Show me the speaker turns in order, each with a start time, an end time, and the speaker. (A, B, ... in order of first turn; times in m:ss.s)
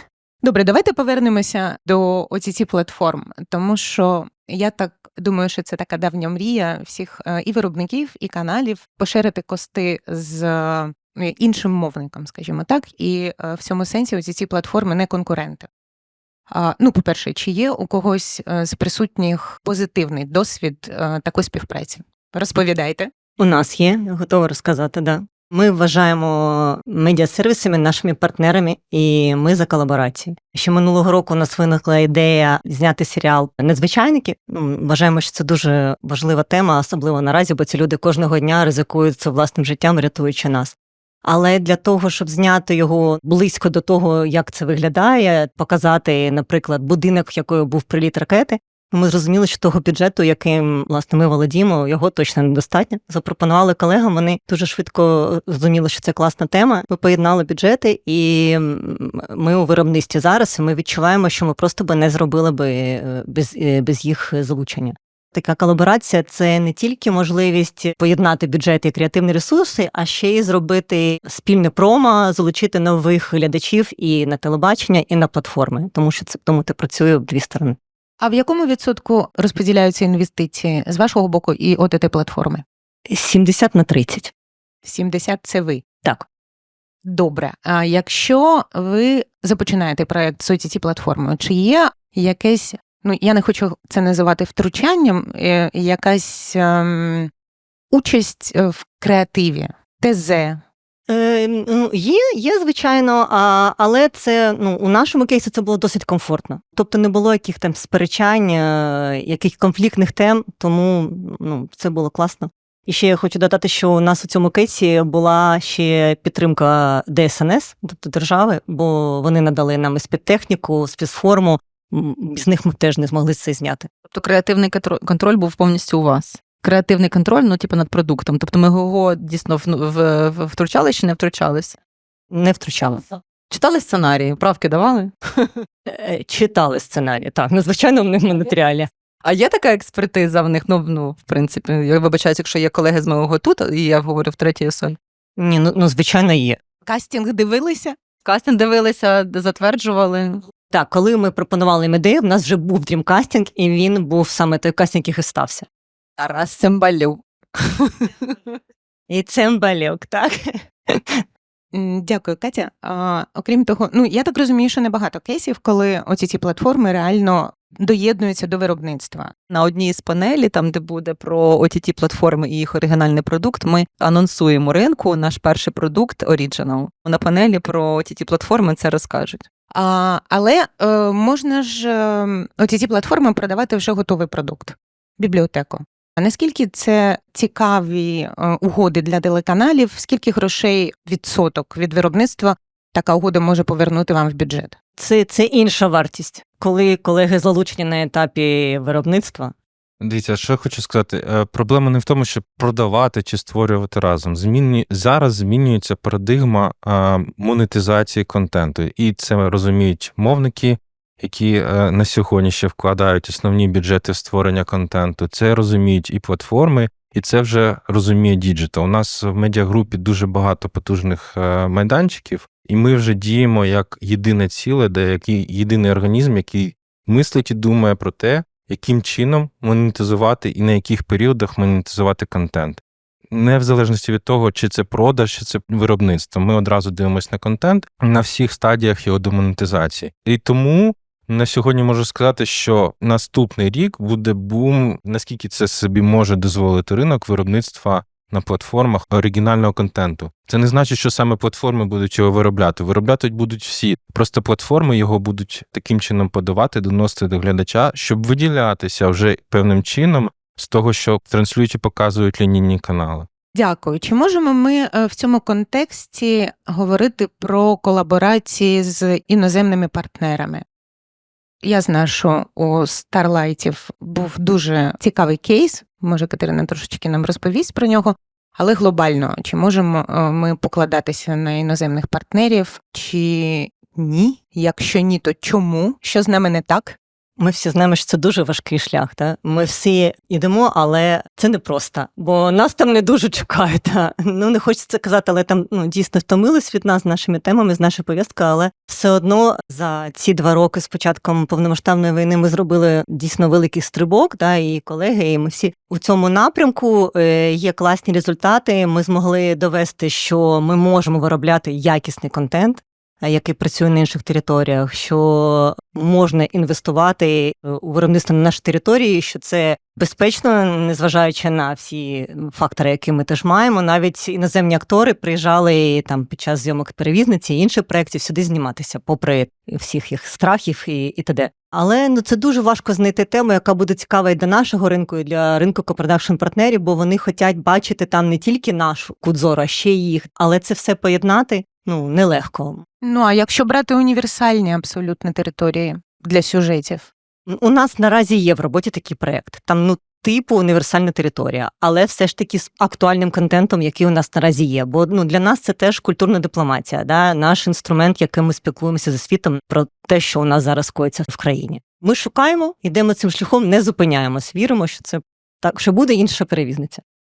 0:00.4-0:15.7 A
0:16.5-0:23.1 A
0:23.4-1:17.8 B
1:18.2-1:22.6 A
1:23.1-1:24.3 B
1:24.8-1:25.8 A
1:27.0-1:37.3 A
1:37.9-1:40.6 A
1:41.1-2:03.9 B
2:04.1-2:11.8 C
2:12.3-2:13.2 B
2:13.5-2:15.5 C
2:15.9-2:18.9 B
2:19.2-2:25.0 C
2:25.4-2:26.6 B
2:26.8-2:28.0 A
2:28.2-2:30.4 C
2:30.7-2:35.6 B
2:36.2-2:38.6 C
2:39.1-2:40.3 B
2:40.9-2:41.2 B
2:41.7-2:49.3 A
2:49.5-2:59.4 C
2:59.7-3:14.8 A
3:15.0-3:19.5 B
3:20.0-4:23.3 D
4:23.5-4:30.6 A
4:31.6-4:47.0 A
4:47.4-5:42.8 B
5:43.0-5:47.1 A
5:47.5-6:07.0 B